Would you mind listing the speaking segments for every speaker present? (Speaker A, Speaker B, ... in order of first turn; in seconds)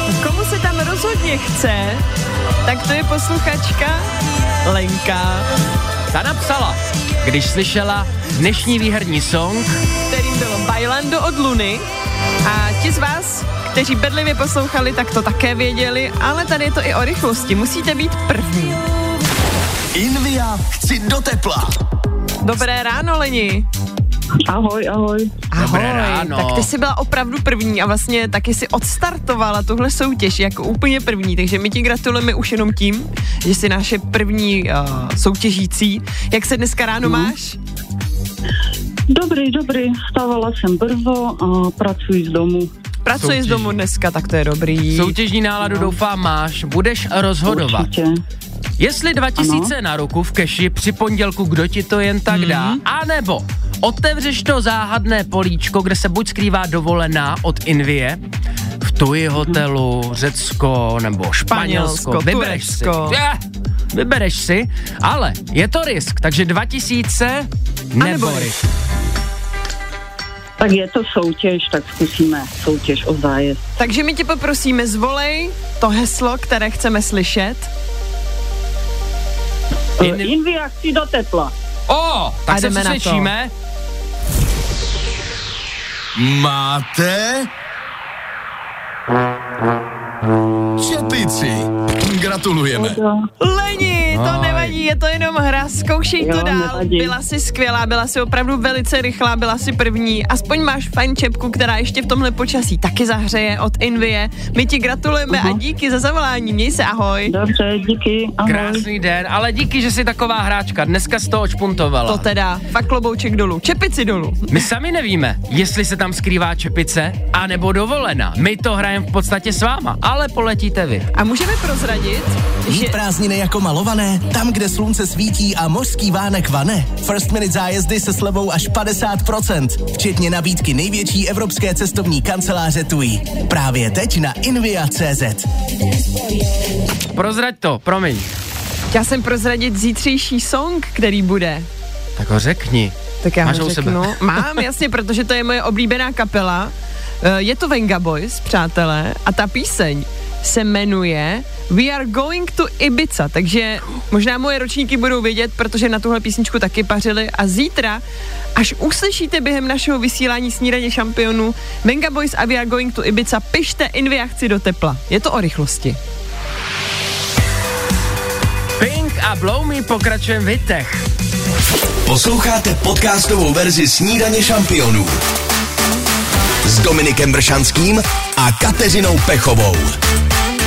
Speaker A: 0.1-2.0, 2.6-4.1, 4.6-5.5, 10.1-11.8, 12.4-18.8, 22.4-23.7, 25.5-37.6, 43.0-45.1, 52.3-52.8, 61.5-63.2, 68.0-68.5, 73.8-77.7, 82.5-83.3, 93.4-107.3, 112.1-114.6, 121.1-123.0, 138.9-141.7, 143.2-158.0, 158.6-166.0
Speaker B: 6.1-9.8, 25.6-26.7, 37.0-37.3, 43.2-43.7, 44.9-47.9, 48.8-58.2, 58.8-63.4, 63.9-68.6, 80.0-80.4, 81.9-83.5, 94.1-94.8, 108.4-112.2, 114.5-121.1, 137.1-138.3, 142.2-144.6, 168.8-171.1
Speaker C: 19.9-21.6, 122.7-135.4
Speaker D: 20.0-21.7, 86.2-87.5, 90.8-93.0, 172.1-175.2, 176.6-179.9
Speaker E: 24.5-25.4, 39.1-42.7, 47.5-48.2, 49.4-49.7, 70.6-73.7, 80.0-81.5, 92.8-93.3, 96.2-97.2, 105.3-105.6, 107.3-108.8